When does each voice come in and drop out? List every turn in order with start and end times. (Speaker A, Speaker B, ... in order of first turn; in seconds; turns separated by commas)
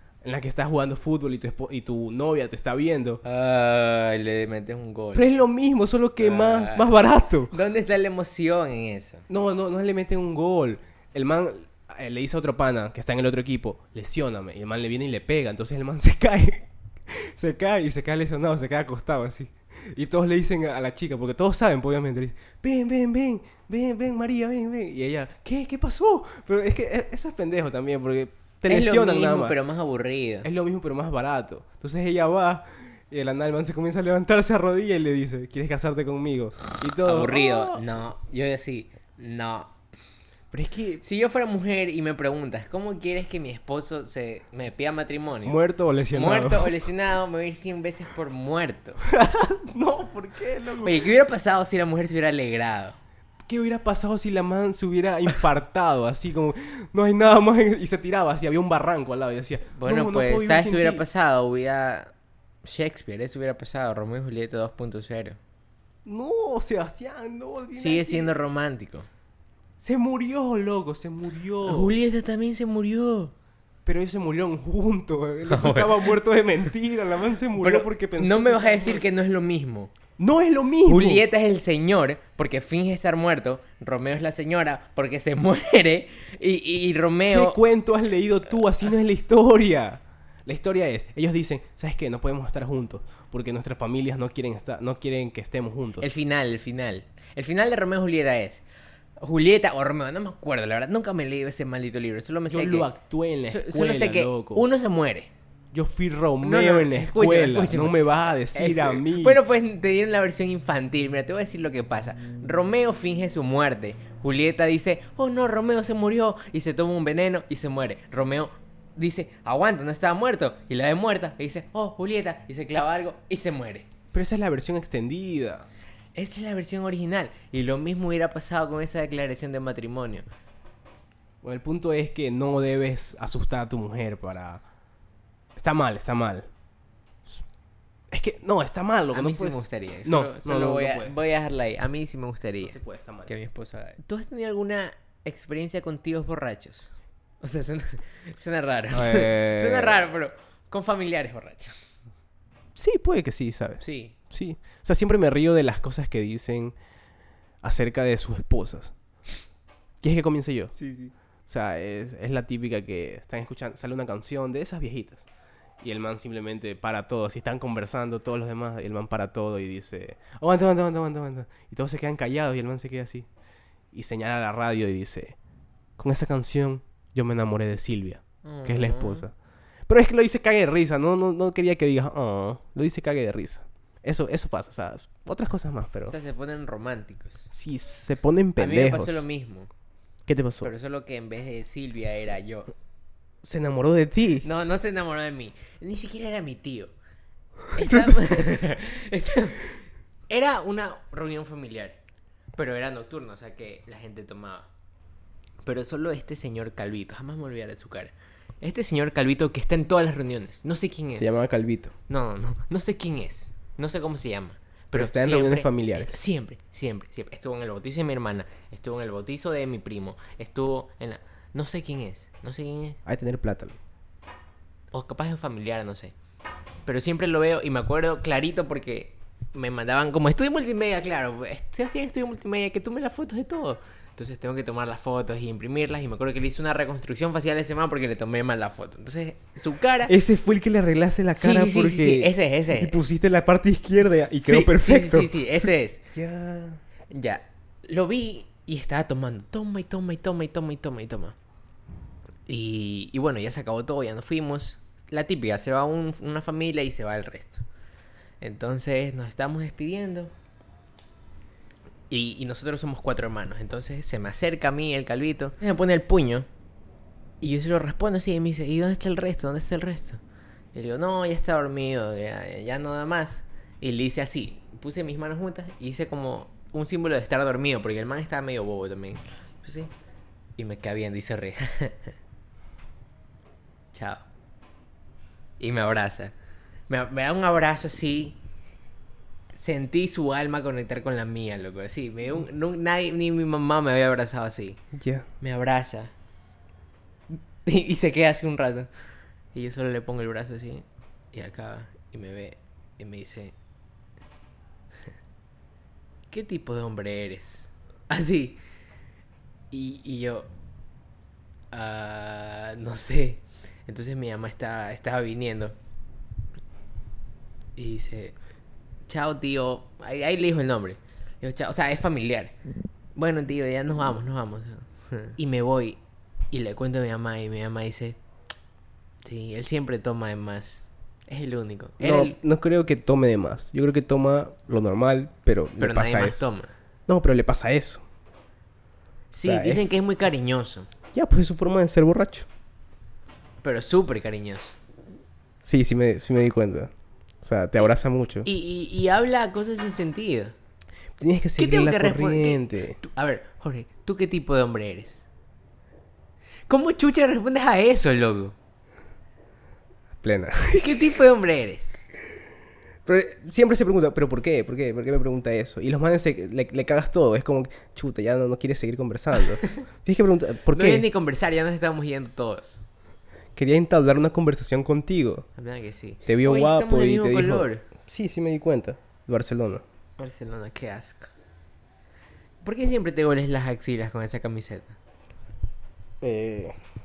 Speaker A: 0.2-3.2, Speaker B: 3.2-5.3, Speaker A: 5.1-7.5, Speaker B: 6.2-7.0, Speaker B: 7.5-9.3, Speaker A: 9.3-29.6, Speaker B: 28.7-30.5, Speaker A: 30.4-37.8, Speaker B: 37.0-39.7, Speaker A: 40.5-41.0, Speaker B: 41.0-45.6, Speaker A: 45.4-46.8, Speaker B: 46.1-49.0, Speaker A: 49.0-51.1, Speaker B: 50.8-53.0, Speaker A: 53.5-61.0, Speaker B: 59.7-62.1, Speaker B: 62.6-65.4, Speaker A: 66.0-68.4, Speaker B: 67.7-69.1, Speaker A: 69.8-71.9, Speaker B: 71.6-73.3, Speaker A: 73.8-79.0, Speaker B: 75.5-76.2, Speaker B: 77.5-79.9, Speaker A: 80.2-81.2, Speaker B: 80.8-87.6, Speaker A: 87.3-96.0, Speaker B: 96.0-98.6, Speaker B: 99.2-102.9, Speaker A: 102.5-104.7, Speaker B: 103.5-105.3, Speaker A: 105.7-109.4, Speaker B: 106.4-123.9, Speaker A: 124.1-125.7, Speaker B: 126.1-130.2, Speaker A: 131.4-134.6, Speaker A: 135.6-136.5, Speaker A: 138.1-141.2, Speaker B: 139.1-151.9, Speaker A: 142.6-143.3, Speaker A: 148.9-150.1, Speaker A: 152.8-156.7, Speaker B: 153.8-154.2, Speaker A: 157.6-158.9, Speaker A: 160.0-160.7, Speaker B: 160.8-161.1, Speaker A: 161.5-165.2, Speaker A: 165.8-173.2, Speaker A: 173.9-175.3, Speaker A: 176.0-179.3, Speaker B: 178.4-179.3, Speaker A: 179.9-186.1, Speaker B: 186.1-187.5, Speaker A: 187.5-189.2, Speaker B: 188.6-189.7, Speaker A: 190.3-190.7, Speaker B: 190.6-192.7, Speaker A: 193.4-194.5, Speaker B: 194.4-196.9, Speaker B: 197.7-202.0, Speaker A: 197.8-198.6, Speaker B: 202.5-204.7, Speaker B: 205.6-211.3, Speaker A: 211.2-211.9, Speaker B: 212.1-223.0, Speaker A: 214.9-216.2, Speaker A: 223.0-223.8, Speaker B: 224.9-226.1, Speaker B: 226.8-240.1, Speaker A: 240.1-245.3, Speaker B: 241.3-243.0, Speaker B: 244.2-246.1, Speaker A: 246.1-246.8, Speaker B: 247.1-251.3, Speaker B: 252.5-257.6, Speaker B: 258.4-260.3, Speaker B: 262.1-266.5, Speaker B: 267.4-270.2, Speaker B: 270.7-279.9, Speaker B: 280.6-282.1, Speaker B: 283.9-284.2, Speaker B: 285.6-286.3, Speaker B: 286.9-288.4, Speaker B: 289.5-294.8, Speaker A: 294.9-295.2, Speaker B: 295.4-296.1, Speaker B: 297.3-298.9, Speaker B: 299.5-303.5, Speaker B: 306.3-308.6, Speaker B: 309.7-310.5, Speaker B: 311.7-315.8, Speaker B: 317.8-318.4, Speaker B: 319.1-322.5, Speaker B: 323.1-326.0, Speaker B: 326.5-328.2, Speaker B: 329.2-332.4, Speaker A: 332.0-336.4, Speaker B: 335.8-336.7, Speaker A: 337.1-338.0, Speaker B: 339.3-340.9, Speaker A: 339.4-339.8, Speaker A: 341.1-342.5, Speaker B: 343.6-344.8, Speaker A: 345.6-348.5, Speaker B: 348.4-350.5, Speaker A: 351.2-353.0, Speaker B: 351.6-355.2, Speaker B: 356.7-358.5, Speaker A: 360.2-361.1, Speaker B: 360.8-362.0, Speaker A: 363.1-371.0, Speaker B: 370.7-372.8, Speaker A: 373.6-375.4, Speaker B: 375.5-377.8, Speaker A: 376.2-379.8, Speaker B: 380.2-381.3, Speaker B: 382.6-384.9, Speaker A: 386.2-386.8